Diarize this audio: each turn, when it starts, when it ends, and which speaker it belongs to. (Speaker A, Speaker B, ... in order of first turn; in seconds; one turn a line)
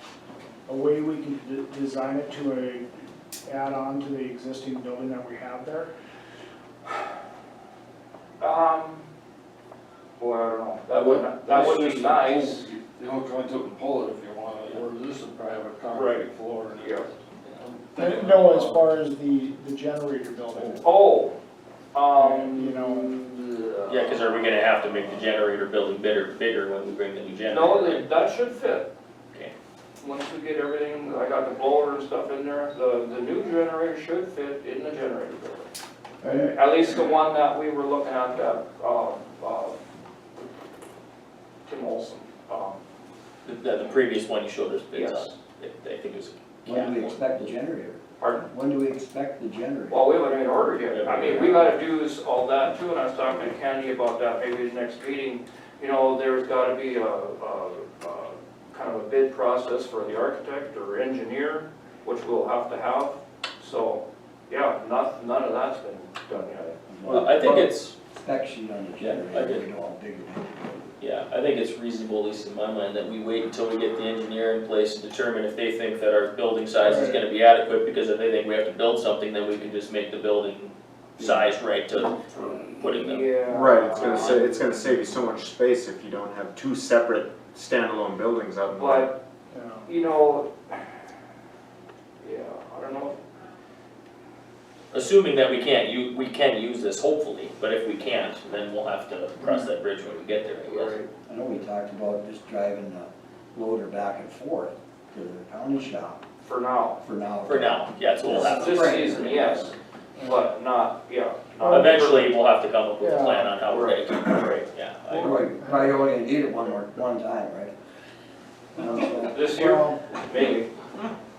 Speaker A: 0.7-2.9
Speaker A: 3.5-5.9
Speaker B: 8.4-9.0
Speaker B: 10.2-12.7
Speaker C: 10.9-12.6
Speaker D: 11.8-18.8
Speaker B: 15.9-17.1
Speaker A: 17.9-20.9
Speaker B: 20.8-21.4
Speaker B: 21.9-24.6
Speaker A: 22.1-23.1
Speaker C: 23.9-28.1
Speaker B: 27.5-28.9
Speaker B: 30.0-35.7
Speaker B: 36.2-39.8
Speaker B: 41.6-42.8
Speaker C: 43.4-47.1
Speaker B: 44.9-45.3
Speaker E: 46.6-50.0
Speaker B: 48.2-48.4
Speaker B: 49.9-66.8
Speaker C: 50.9-51.8
Speaker E: 66.9-71.0
Speaker C: 67.0-67.9
Speaker C: 69.0-69.7
Speaker C: 71.0-83.3
Speaker A: 76.8-77.2
Speaker E: 81.2-81.5
Speaker B: 82.3-84.8
Speaker F: 83.5-89.1
Speaker B: 88.7-89.2
Speaker A: 89.5-89.9
Speaker B: 89.8-90.8
Speaker B: 92.2-93.2
Speaker C: 94.9-101.0
Speaker B: 100.7-101.1
Speaker E: 101.2-106.2
Speaker B: 106.4-107.0
Speaker E: 107.0-109.7
Speaker C: 107.5-108.9
Speaker A: 108.2-109.2
Speaker B: 108.4-112.3
Speaker A: 110.2-110.5
Speaker C: 111.6-115.4
Speaker A: 111.6-112.0
Speaker A: 113.0-113.6
Speaker B: 113.7-114.6
Speaker A: 115.1-116.0
Speaker E: 115.2-117.7
Speaker E: 118.7-119.5
Speaker B: 119.0-120.7
Speaker A: 119.5-120.0